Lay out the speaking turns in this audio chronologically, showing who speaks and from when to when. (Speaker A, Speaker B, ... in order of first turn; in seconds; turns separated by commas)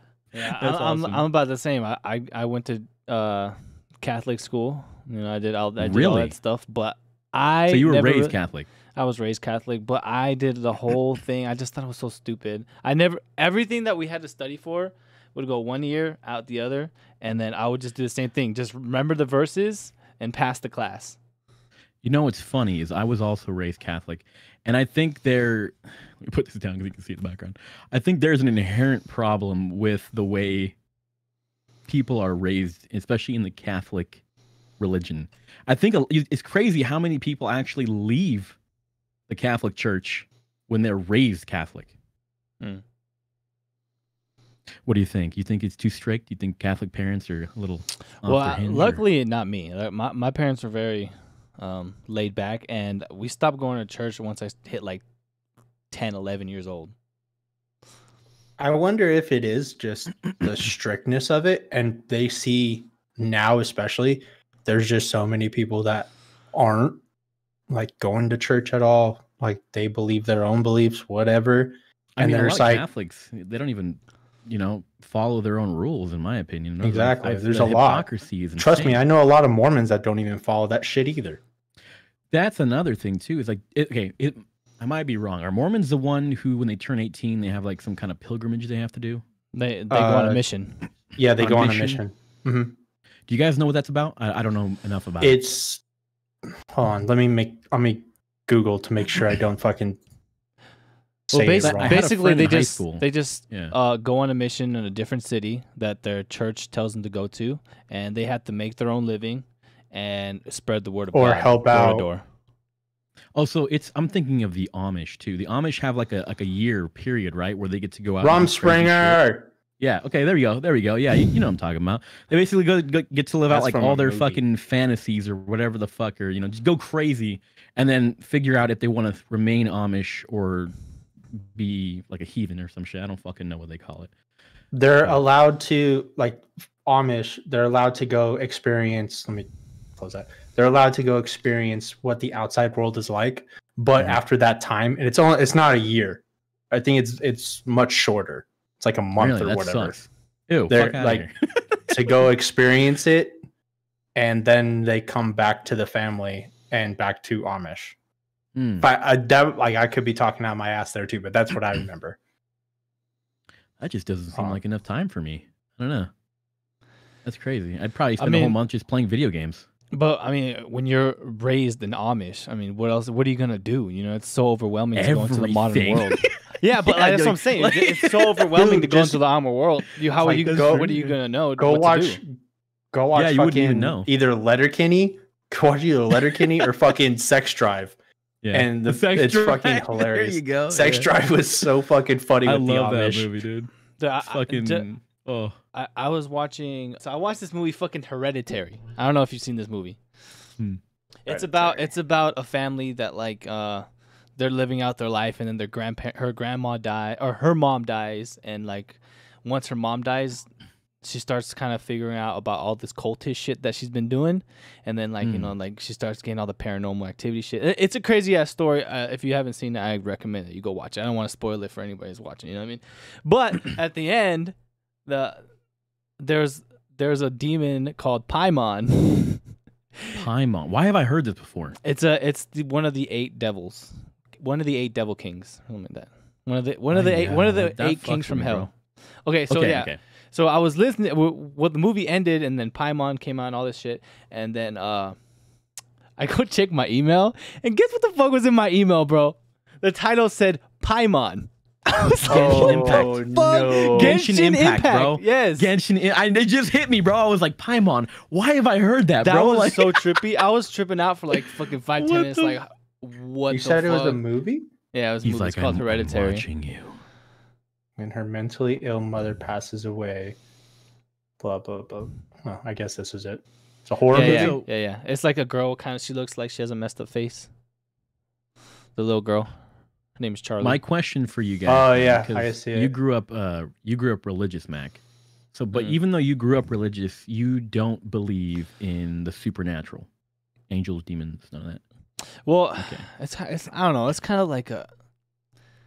Speaker A: 0.3-1.2, Speaker B: 0.3-8.3, Speaker A: 5.8-6.3, Speaker A: 7.7-8.7, Speaker B: 8.9-21.2, Speaker A: 22.0-30.7, Speaker A: 31.9-34.2, Speaker A: 34.8-38.5, Speaker A: 39.3-41.9, Speaker A: 44.8-49.0, Speaker B: 48.2-55.0, Speaker B: 55.9-56.9, Speaker C: 58.6-67.0, Speaker C: 67.7-72.8, Speaker A: 72.2-79.0, Speaker C: 76.8-81.4, Speaker A: 82.3-89.2, Speaker B: 89.5-90.8, Speaker C: 89.9-90.4, Speaker C: 91.2-92.8, Speaker A: 91.4-92.0, Speaker A: 93.3-95.4, Speaker C: 95.2-95.8, Speaker C: 96.7-100.0, Speaker C: 101.3-102.0, Speaker A: 101.3-103.7, Speaker B: 101.4-112.2, Speaker C: 111.1-112.0, Speaker A: 113.3-119.2, Speaker C: 118.2-119.5, Speaker A: 119.8-130.7, Speaker C: 123.5-124.4, Speaker A: 131.3-134.1, Speaker C: 134.7-150.0, Speaker A: 149.2-152.1, Speaker C: 150.7-151.3, Speaker C: 151.9-153.4, Speaker C: 154.1-157.9, Speaker A: 158.6-158.9, Speaker C: 158.8-162.2, Speaker A: 163.8-166.1, Speaker C: 164.3-164.6, Speaker A: 167.2-169.7, Speaker B: 168.2-168.6, Speaker B: 169.9-182.2, Speaker A: 174.9-178.6, Speaker C: 178.6-179.2, Speaker C: 180.2-181.0, Speaker A: 180.6-181.1, Speaker C: 181.6-182.3, Speaker C: 182.9-187.9, Speaker A: 183.1-184.1, Speaker A: 188.4-191.1, Speaker C: 188.5-193.3, Speaker A: 192.4-193.7, Speaker B: 194.0-194.8, Speaker A: 194.2-195.6, Speaker B: 195.7-200.0, Speaker B: 201.2-210.5, Speaker C: 201.3-201.9, Speaker B: 211.0-224.5, Speaker A: 215.2-215.5, Speaker B: 225.1-225.4, Speaker B: 226.2-229.4, Speaker A: 230.1-231.8, Speaker B: 231.8-238.7, Speaker A: 236.9-238.7, Speaker B: 239.2-245.2, Speaker A: 239.5-240.0, Speaker B: 246.2-255.7, Speaker A: 252.1-253.2, Speaker C: 252.3-254.2, Speaker A: 253.8-260.2, Speaker B: 259.2-264.2, Speaker A: 262.0-262.6, Speaker C: 263.5-264.7, Speaker B: 264.9-266.4, Speaker A: 265.2-267.0, Speaker C: 268.0-270.4, Speaker C: 271.4-274.6, Speaker B: 274.1-277.5, Speaker A: 274.1-274.6, Speaker B: 278.9-279.5, Speaker B: 280.2-280.8, Speaker A: 280.6-285.0, Speaker C: 281.6-282.9, Speaker A: 285.5-290.1, Speaker A: 290.7-291.8, Speaker B: 292.4-294.9, Speaker A: 292.8-293.1